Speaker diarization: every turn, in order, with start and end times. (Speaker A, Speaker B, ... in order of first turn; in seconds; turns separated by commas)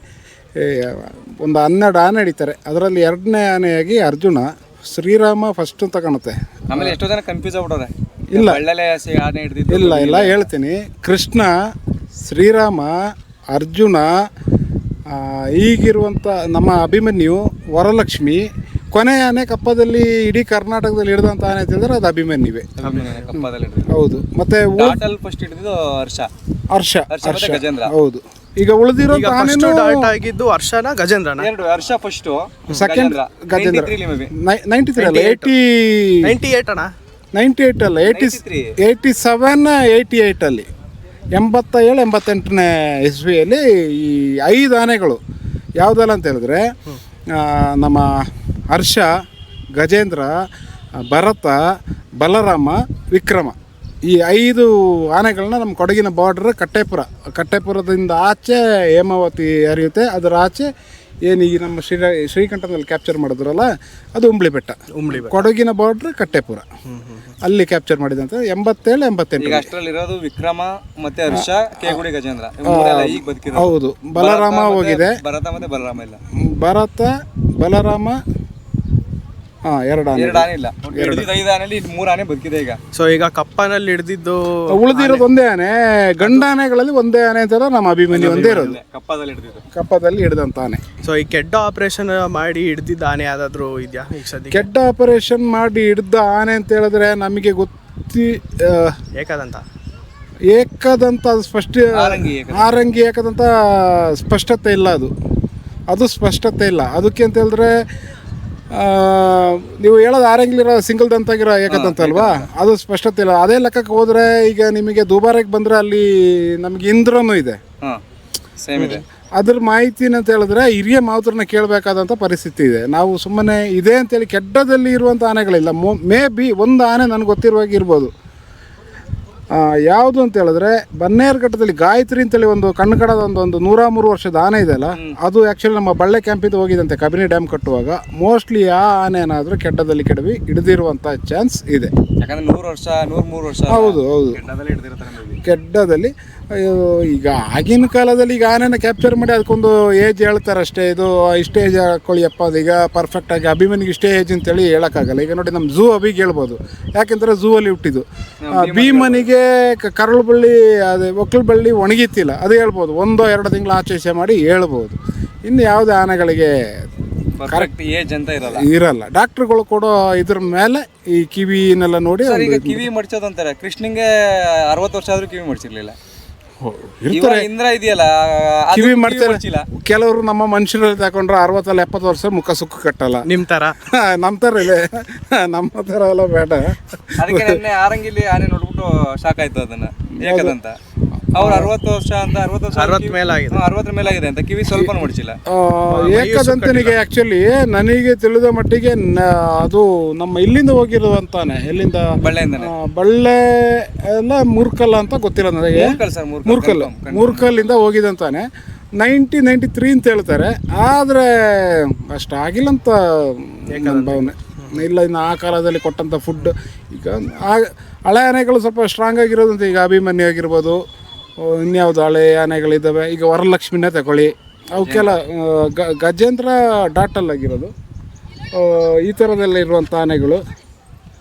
Speaker A: 0.6-7.0, Speaker B: 6.7-10.4, Speaker A: 8.3-8.6, Speaker A: 9.7-11.5, Speaker A: 12.2-13.0, Speaker A: 13.5-14.1, Speaker A: 15.1-22.7, Speaker B: 22.8-23.9, Speaker C: 22.8-23.2, Speaker A: 23.3-25.0, Speaker B: 24.8-26.3, Speaker A: 26.7-30.1, Speaker B: 27.1-27.9, Speaker C: 29.1-31.5, Speaker B: 31.4-34.3, Speaker A: 32.7-36.2, Speaker C: 35.0-35.5, Speaker C: 36.2-36.9, Speaker A: 37.4-40.6, Speaker B: 38.1-38.7, Speaker A: 41.4-45.2, Speaker A: 45.8-46.7, Speaker A: 47.3-48.1, Speaker A: 48.7-49.1, Speaker A: 49.8-50.3, Speaker A: 51.1-51.6, Speaker A: 52.2-53.5, Speaker A: 54.1-60.7, Speaker A: 61.3-66.7, Speaker C: 64.9-65.4, Speaker C: 66.9-67.3, Speaker A: 67.4-69.7, Speaker B: 69.4-76.2, Speaker A: 71.3-72.0, Speaker A: 72.7-75.2, Speaker A: 76.4-78.2, Speaker A: 79.7-81.3, Speaker B: 80.2-82.8, Speaker C: 82.9-85.3, Speaker A: 84.7-88.8, Speaker B: 88.1-89.6, Speaker C: 88.2-88.7, Speaker A: 89.7-90.8, Speaker C: 91.0-94.7, Speaker A: 94.5-99.0, Speaker C: 99.2-99.6, Speaker A: 100.5-105.1, Speaker B: 101.9-102.8, Speaker A: 105.9-107.8, Speaker A: 108.7-117.6, Speaker B: 111.7-112.5, Speaker B: 118.6-119.0, Speaker A: 118.9-128.1, Speaker A: 129.5-141.9, Speaker B: 142.2-145.4, Speaker A: 143.7-144.4, Speaker A: 145.4-166.5, Speaker B: 158.4-159.3, Speaker B: 167.4-168.7, Speaker A: 168.4-172.8, Speaker B: 172.2-174.1, Speaker B: 174.7-176.0, Speaker A: 176.6-177.5, Speaker B: 177.1-179.7, Speaker A: 178.7-183.2, Speaker C: 183.3-183.8, Speaker A: 183.9-187.6, Speaker B: 187.2-190.7, Speaker A: 190.2-190.6, Speaker A: 191.3-191.7, Speaker B: 191.3-195.4, Speaker C: 192.7-193.6, Speaker A: 195.5-202.1, Speaker C: 195.9-197.0, Speaker B: 202.2-202.7, Speaker A: 202.6-208.5, Speaker B: 205.8-207.5, Speaker A: 209.0-220.8, Speaker C: 213.7-214.8, Speaker A: 221.4-227.7, Speaker B: 224.8-225.2, Speaker A: 228.5-230.4